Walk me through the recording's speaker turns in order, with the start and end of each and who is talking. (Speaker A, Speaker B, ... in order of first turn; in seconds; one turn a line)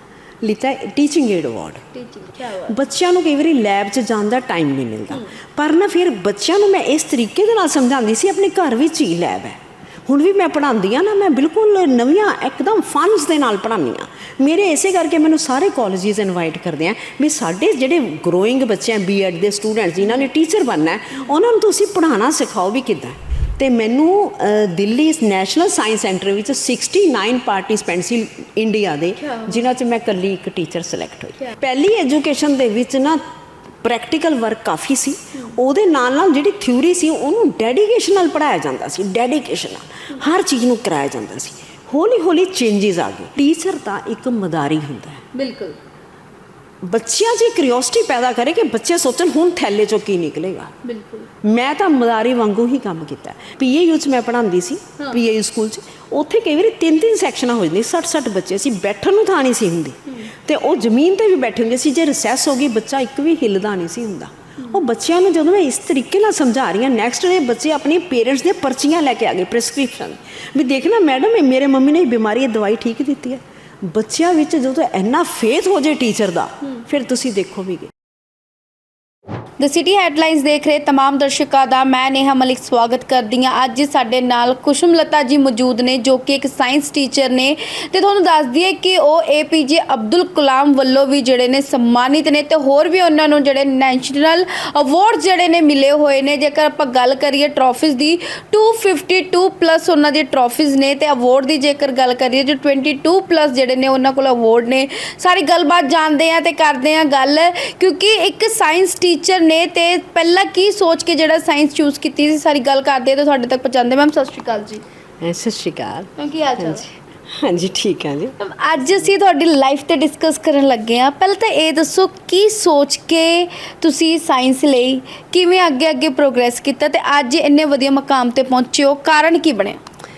Speaker A: 0.4-1.8
Speaker B: 1.9-2.8
Speaker A: 2.6-33.2
Speaker B: 29.2-29.6
Speaker A: 33.8-45.2
Speaker B: 45.3-45.8
Speaker A: 46.8-50.7
Speaker B: 50.8-51.3
Speaker A: 51.4-77.9
Speaker B: 79.6-114.8
Speaker A: 115.2-118.3
Speaker B: 116.2-116.8
Speaker B: 118.4-129.8